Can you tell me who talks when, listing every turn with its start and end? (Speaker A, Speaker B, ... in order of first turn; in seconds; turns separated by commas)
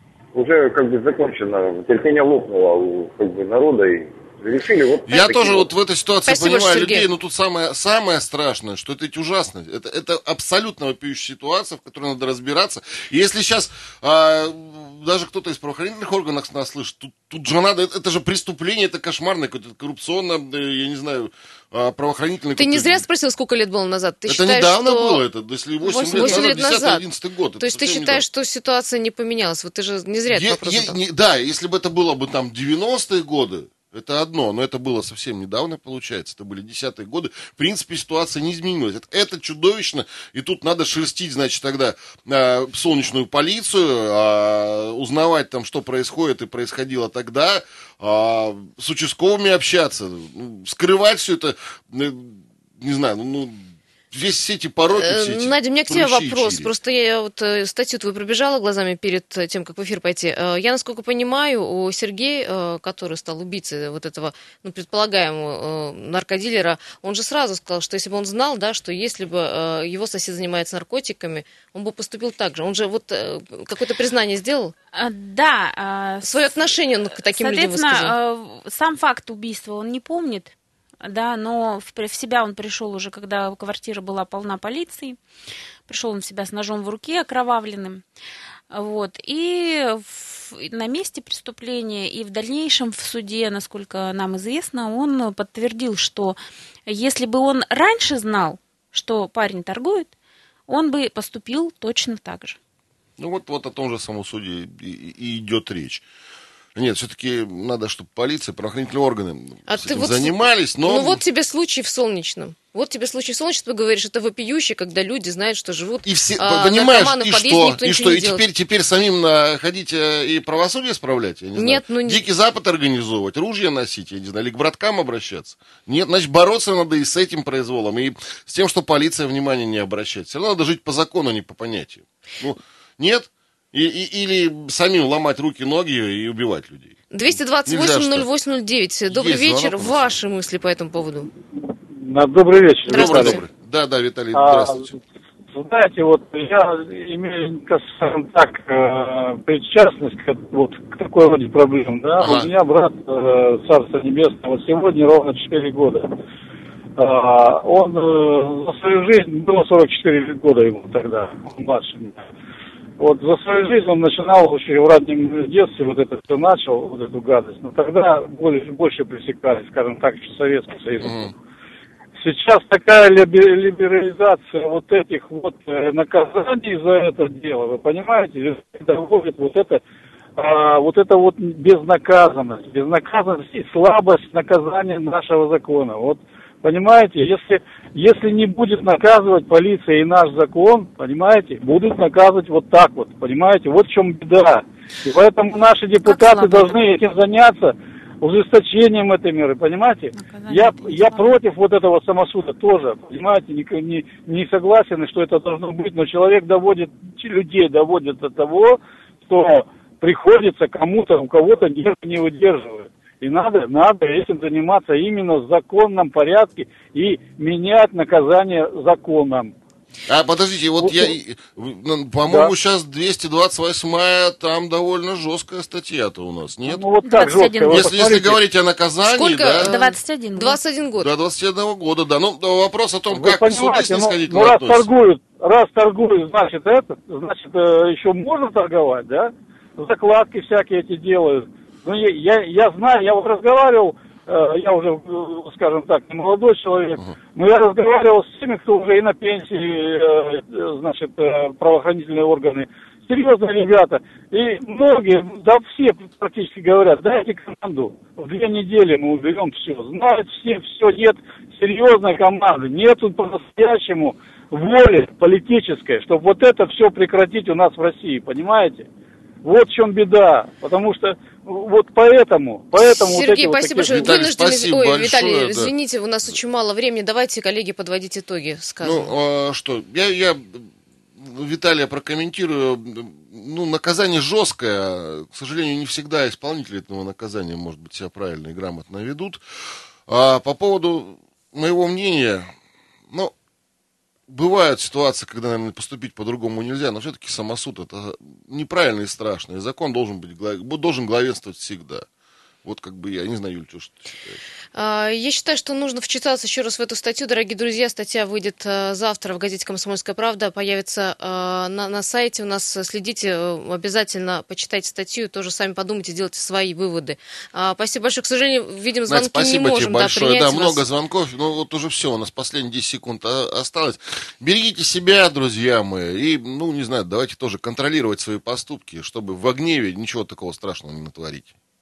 Speaker A: 0.3-5.7, Speaker B: 5.1-23.0, Speaker C: 6.3-7.1, Speaker C: 22.6-25.2, Speaker B: 24.3-28.2, Speaker D: 25.8-26.6, Speaker C: 26.0-27.0, Speaker C: 27.6-31.0, Speaker B: 30.3-56.7, Speaker C: 55.0-74.7, Speaker D: 74.9-85.2, Speaker C: 76.2-78.1, Speaker D: 85.9-88.0, Speaker D: 88.7-100.1, Speaker D: 100.7-102.6, Speaker B: 103.2-106.0, Speaker B: 106.8-111.2, Speaker C: 109.7-118.4, Speaker B: 116.0-137.0, Speaker C: 121.5-122.2, Speaker C: 137.1-141.3, Speaker B: 137.6-138.3, Speaker B: 139.1-140.1, Speaker E: 141.9-143.4, Speaker C: 142.9-143.4, Speaker B: 142.9-144.9, Speaker E: 144.3-145.0, Speaker E: 145.5-156.1, Speaker B: 152.2-152.5, Speaker E: 157.0-162.2, Speaker E: 163.0-171.3, Speaker B: 171.0-171.3, Speaker E: 172.2-179.8, Speaker E: 180.3-219.5, Speaker D: 196.0-196.7, Speaker D: 200.1-201.3, Speaker B: 220.1-226.8, Speaker E: 220.8-221.1, Speaker E: 226.7-228.4, Speaker D: 227.0-227.9, Speaker B: 227.7-229.7, Speaker C: 229.1-231.1, Speaker D: 229.6-230.6, Speaker B: 231.0-234.9, Speaker E: 233.1-268.9, Speaker E: 269.4-274.1, Speaker C: 272.8-279.1, Speaker B: 273.9-275.7, Speaker B: 278.8-289.4, Speaker B: 290.1-292.5, Speaker B: 294.3-302.1, Speaker B: 302.6-304.4, Speaker C: 304.7-320.8, Speaker B: 319.1-331.5